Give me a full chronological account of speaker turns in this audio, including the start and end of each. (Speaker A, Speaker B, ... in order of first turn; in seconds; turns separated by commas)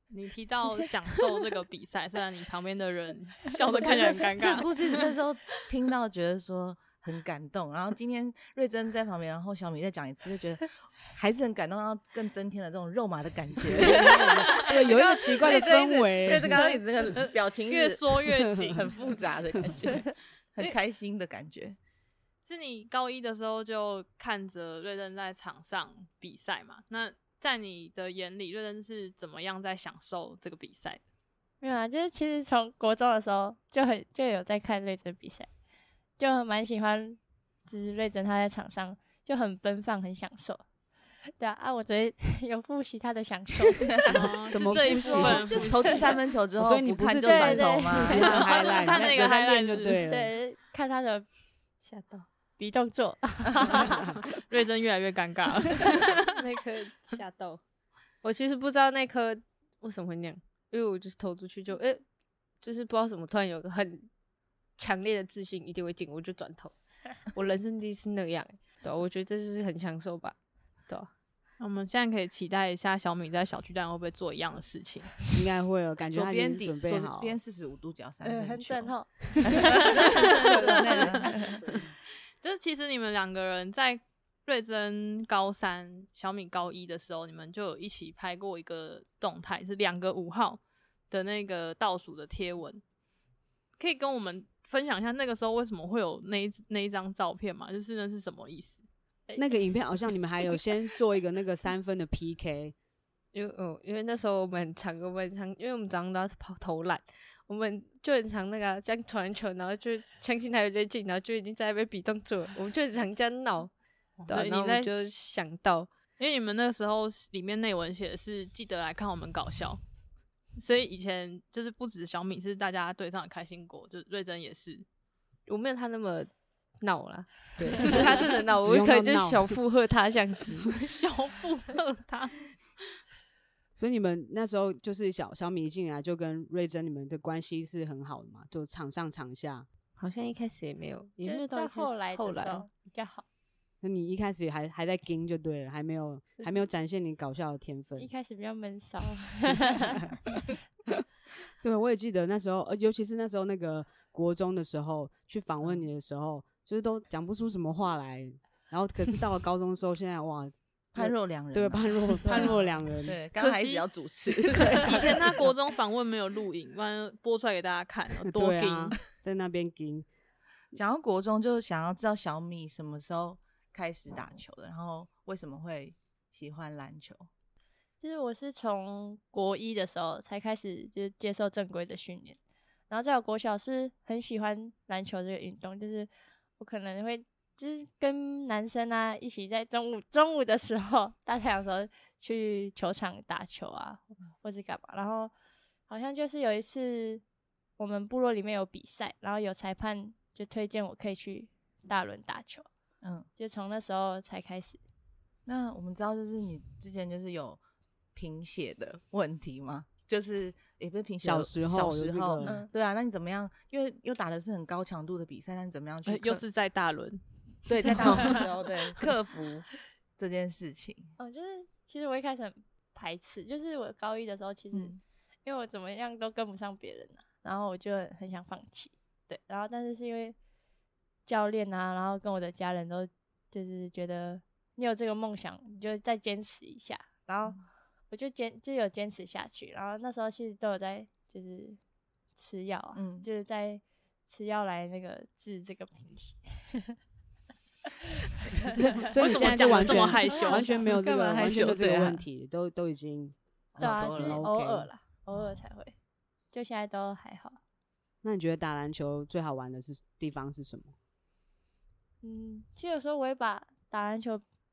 Speaker A: 0.1-5.0, Speaker B: 4.4-21.8, Speaker C: 13.8-16.6, Speaker A: 16.6-19.1, Speaker A: 22.4-31.0, Speaker D: 31.6-35.5, Speaker D: 36.2-40.6, Speaker D: 41.4-46.0, Speaker B: 43.8-44.3, Speaker C: 44.1-45.7, Speaker A: 44.1-46.1, Speaker B: 45.1-48.3, Speaker C: 46.6-50.4, Speaker D: 47.3-48.9, Speaker A: 48.1-50.0, Speaker D: 50.0-51.3, Speaker E: 51.8-52.3, Speaker D: 52.6-54.2, Speaker A: 54.5-56.3, Speaker E: 56.3-57.6, Speaker E: 58.2-62.0, Speaker E: 62.6-64.1, Speaker E: 64.8-70.4, Speaker A: 71.6-75.2, Speaker C: 75.3-77.3, Speaker B: 76.1-81.7, Speaker D: 78.2-81.4, Speaker A: 82.4-92.8, Speaker A: 93.8-98.8, Speaker C: 99.4-102.7, Speaker E: 103.3-113.7, Speaker A: 114.2-115.1, Speaker E: 114.3-115.9, Speaker A: 116.2-119.8, Speaker A: 120.6-124.8, Speaker E: 125.5-130.7, Speaker C: 127.6-129.6, Speaker A: 130.7-132.4, Speaker C: 133.8-139.7, Speaker E: 140.0-142.7, Speaker D: 141.2-143.2, Speaker C: 143.8-148.1, Speaker D: 148.0-150.2, Speaker C: 151.6-163.2, Speaker B: 160.9-165.5, Speaker A: 162.2-162.7, Speaker A: 163.4-169.0, Speaker C: 168.3-170.1, Speaker B: 170.7-177.3, Speaker D: 178.0-182.4, Speaker D: 182.9-195.3, Speaker D: 195.9-197.2, Speaker D: 197.8-202.7, Speaker B: 203.0-203.3, Speaker D: 203.4-204.8, Speaker B: 205.5-207.6, Speaker B: 208.2-216.4, Speaker C: 211.2-212.6, Speaker A: 216.1-217.2, Speaker B: 217.7-221.1, Speaker A: 217.8-218.4, Speaker D: 221.2-230.4, Speaker B: 224.7-225.0, Speaker D: 231.3-241.8, Speaker D: 242.4-247.0, Speaker B: 242.9-243.3, Speaker C: 248.6-254.9, Speaker D: 248.9-250.7, Speaker A: 249.1-250.8, Speaker B: 250.7-252.2, Speaker B: 253.8-254.4, Speaker D: 253.8-255.9, Speaker D: 256.5-257.6, Speaker C: 258.2-260.9, Speaker D: 262.2-264.4